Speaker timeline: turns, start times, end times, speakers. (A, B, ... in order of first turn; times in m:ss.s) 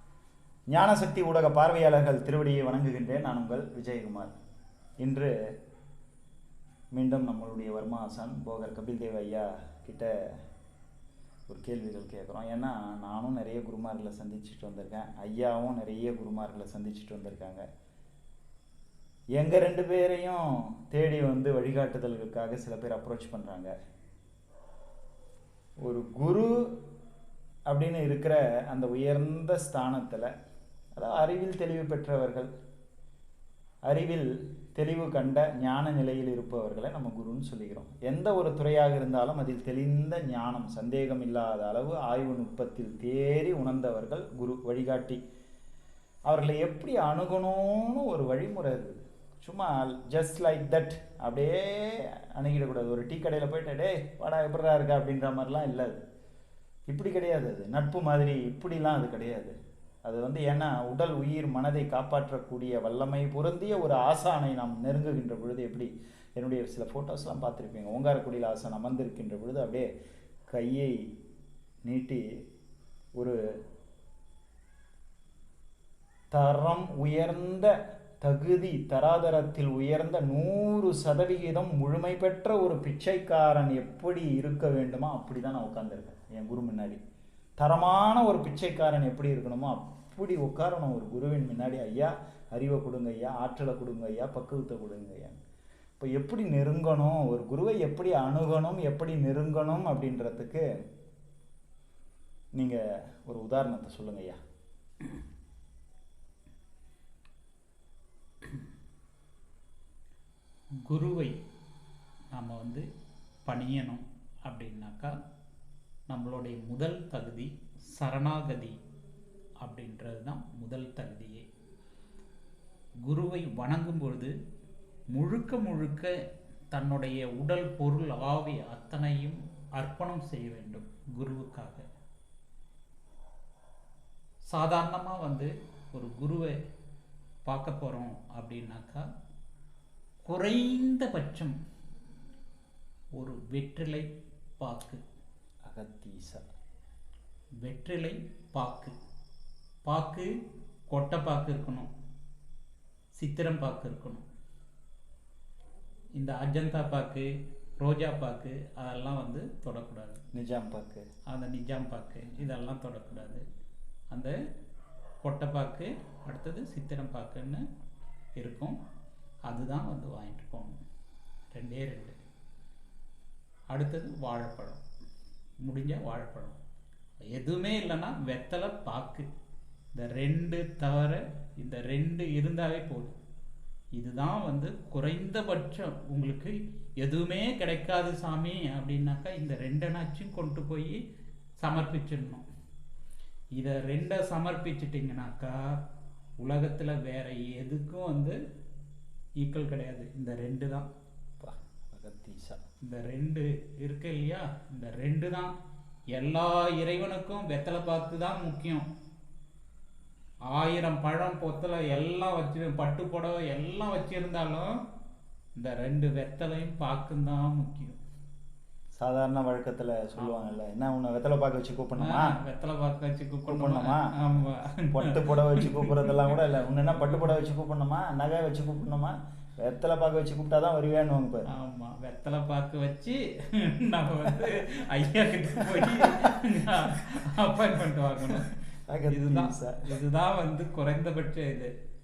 0:00.7-0:04.3 A
0:05.0-0:05.3 A
0:07.0-0:10.1 A
0:11.5-0:17.6 A
0:19.4-0:23.7 A
0:25.8-0:26.5 A
0:27.7-0:30.3 A
0:31.0-0:32.5 A
0:33.8-0:45.2 A
0:46.3-0:56.0 A
0:56.9-1:09.9 A
1:10.5-1:10.9 A
1:11.8-1:12.2 A
1:16.3-1:27.0 A
1:27.6-1:35.4 A
1:36.0-1:40.6 A
1:42.6-1:44.4 A
1:50.8-1:51.4 B
1:52.3-1:52.8 B
1:53.4-1:55.1 B
1:56.1-1:58.8 B
1:59.6-2:01.4 B
2:03.0-2:04.3 B
2:05.1-2:06.1 B
2:06.7-2:11.8 B
2:14.5-2:16.5 B
2:17.4-2:19.0 B
2:20.2-2:21.6 B
2:23.2-2:24.1 B
2:24.6-2:25.0 B
2:25.6-2:26.4 A
2:27.6-2:28.9 B
2:29.8-2:30.3 B
2:30.9-2:31.9 B
2:33.2-2:34.2 B
2:36.2-2:37.3 B
2:37.8-2:40.2 B
2:40.3-2:41.0 A
2:41.3-2:43.4 B
2:45.2-2:47.6 B
2:48.4-2:48.8 B
2:49.5-2:50.8 B
2:51.5-2:52.2 B
2:53.7-2:54.8 B
2:55.6-2:56.6 B
2:57.3-2:59.3 B
2:59.9-3:03.2 B
3:04.0-3:11.0 B
3:11.6-3:12.4 B
3:13.6-3:15.8 B
3:16.4-3:18.4 B
3:19.4-3:20.9 B
3:21.4-3:22.6 A
3:22.9-3:25.5 B
3:26.1-3:28.9 B
3:30.5-3:34.8 B
3:35.6-3:38.0 B
3:39.0-3:42.3 A
3:40.2-3:40.5 B
3:42.0-3:46.4 B
3:43.5-3:44.1 A
3:44.9-3:51.4 A
3:47.0-3:47.2 B
3:51.5-3:58.5 B
3:55.6-3:57.7 A
3:58.2-3:59.9 A
3:59.1-4:01.7 B